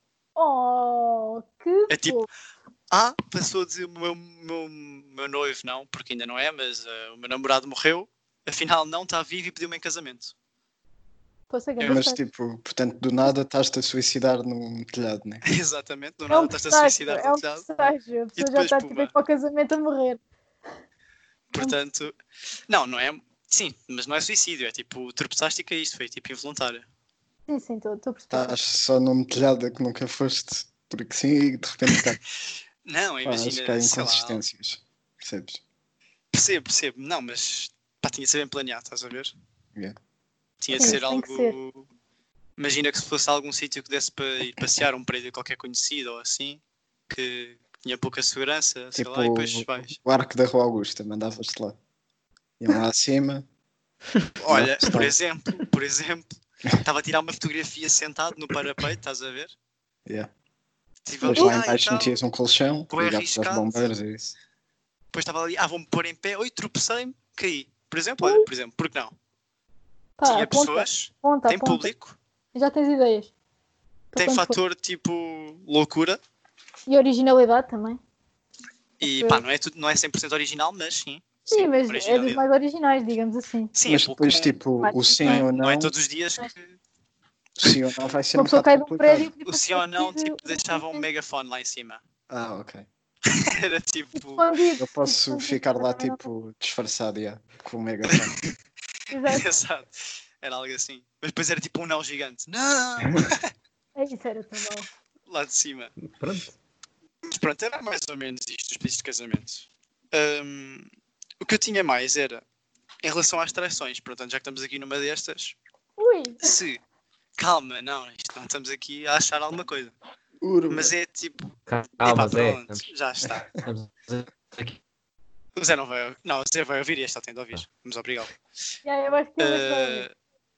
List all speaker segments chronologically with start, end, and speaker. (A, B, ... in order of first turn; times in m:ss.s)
0:00.4-0:02.3 A
0:01.9-0:02.2 B
0:02.9-0:10.3 B
0:11.5-0:12.2 A
0:11.9-0:15.4 C
0:15.4-0:17.7 B
0:16.3-0:20.2 A
0:18.4-0:19.1 B
0:21.5-0:22.2 B
0:22.7-0:26.9 B
0:27.5-0:28.6 A
0:28.3-0:32.2 C
0:32.8-0:34.4 B
0:33.2-0:35.6 C
0:36.3-0:39.3 B
0:40.6-0:41.9 B
0:40.7-0:41.6 A
0:42.6-0:50.0 B
0:49.0-0:51.8 C
0:52.6-0:53.4 C
0:54.4-0:56.3 B
0:54.5-0:55.2 C
0:56.8-0:59.5 B
1:01.0-1:02.2 B
1:01.2-1:01.6 A
1:01.2-1:04.4 C
1:02.9-1:03.9 B
1:05.1-1:09.1 B
1:08.2-1:08.5 A
1:10.2-1:11.9 A
1:10.2-1:12.2 B
1:12.5-1:13.3 A
1:14.1-1:14.6 A
1:14.2-1:16.2 B
1:16.9-1:18.0 A
1:19.0-1:22.4 B
1:19.0-1:19.4 A
1:21.5-1:23.7 A
1:23.8-1:24.6 B
1:23.8-1:25.9 C
1:24.8-1:25.5 A
1:25.2-1:26.8 B
1:27.6-1:29.3 C
1:28.3-1:31.1 A
1:29.4-1:32.0 B
1:32.3-1:32.9 C
1:33.3-1:34.5 B
1:34.2-1:36.3 A
1:34.8-1:38.4 C
1:38.1-1:38.3 B
1:39.1-1:39.5 A
1:39.3-1:43.5 B
1:44.0-1:44.9 A
1:45.3-1:46.0 B
1:46.0-1:46.6 D
1:47.2-1:50.9 B
1:51.4-1:52.4 B
1:53.0-1:55.6 B
1:56.0-1:56.5 A
1:56.4-1:56.8 B
1:57.4-1:59.9 B
2:00.4-2:00.9 C
2:00.7-2:03.5 B
2:01.7-2:02.8 D
2:03.6-2:04.8 D
2:05.6-2:08.3 B
2:08.8-2:10.1 A
2:09.4-2:10.1 B